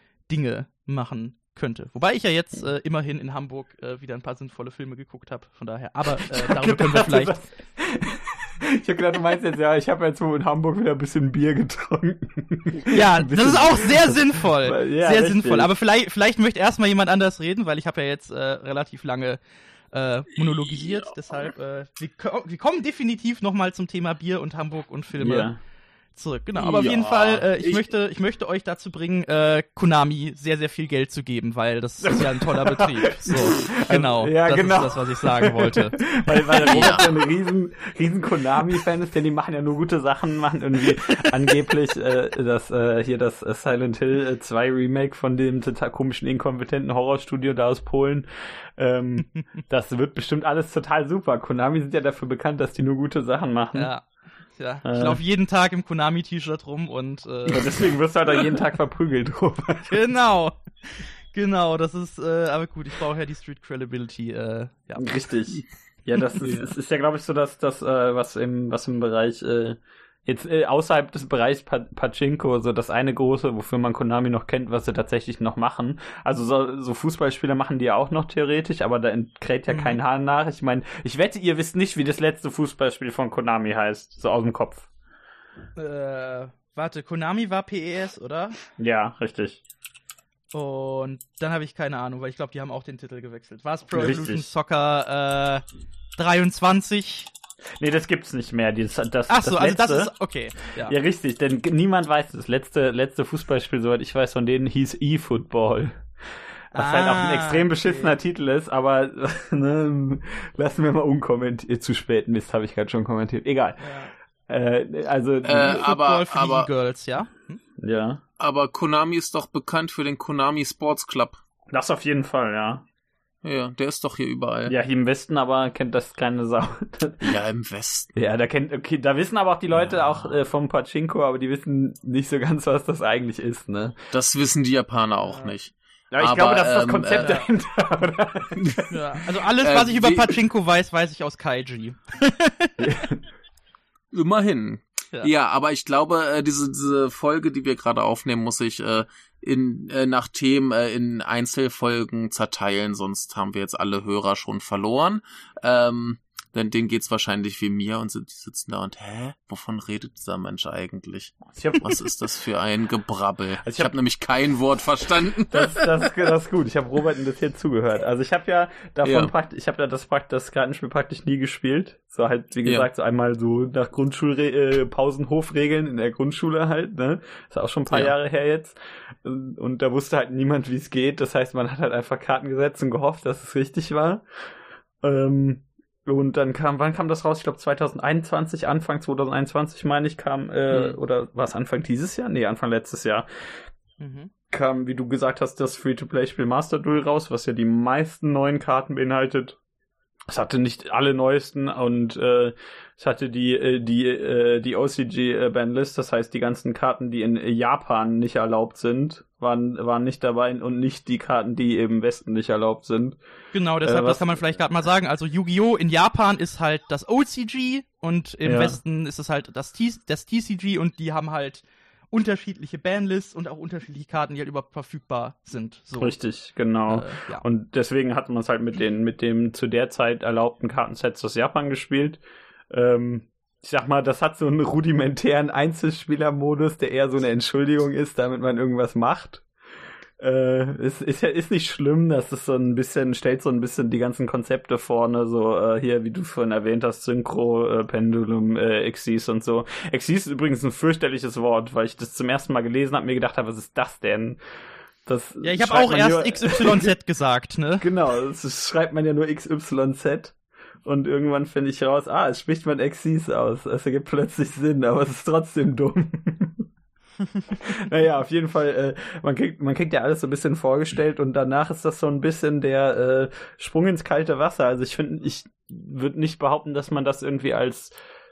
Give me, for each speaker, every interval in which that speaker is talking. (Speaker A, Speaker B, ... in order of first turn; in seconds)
Speaker A: 0.3-7.3, 12.9-19.4, 19.9-25.5, 26.1-36.0, 53.7-57.8, 59.9-65.1, 79.7-80.0, 85.8-88.6, 90.5-95.6, 96.2-97.3, 99.3-101.0, 106.7-108.2, 113.8-114.1, 115.6-117.6, 135.3-135.5, 137.2-137.5, 138.9-142.9, 194.0-194.3, 213.5-226.2, 226.9-227.4, 255.4-257.8
Speaker B: 6.2-15.7, 25.2-25.6, 32.0-53.9, 54.8-55.2, 57.5-60.0, 65.0-84.9, 88.8-89.6, 93.9-94.5, 97.8-100.1, 100.8-106.1, 106.7-113.8, 114.5-115.8, 117.8-118.2, 121.7-122.8, 124.7-127.4, 128.1-133.9, 136.1-138.9, 142.8-143.2, 161.5-162.0, 163.6-163.9, 165.5-184.2, 185.0-193.3, 194.5-199.6, 200.3-213.2, 213.8-214.4, 218.4-218.8, 226.0-239.4, 240.2-254.4, 255.1-256.9, 257.8-266.7, 267.5-277.9
Speaker C: 26.6-27.8, 36.6-37.1, 66.4-66.7, 115.4-116.7, 118.4-121.4, 123.4-124.7, 127.2-128.1, 129.8-130.3, 134.1-137.4, 139.6-140.4, 144.1-165.9, 169.0-169.3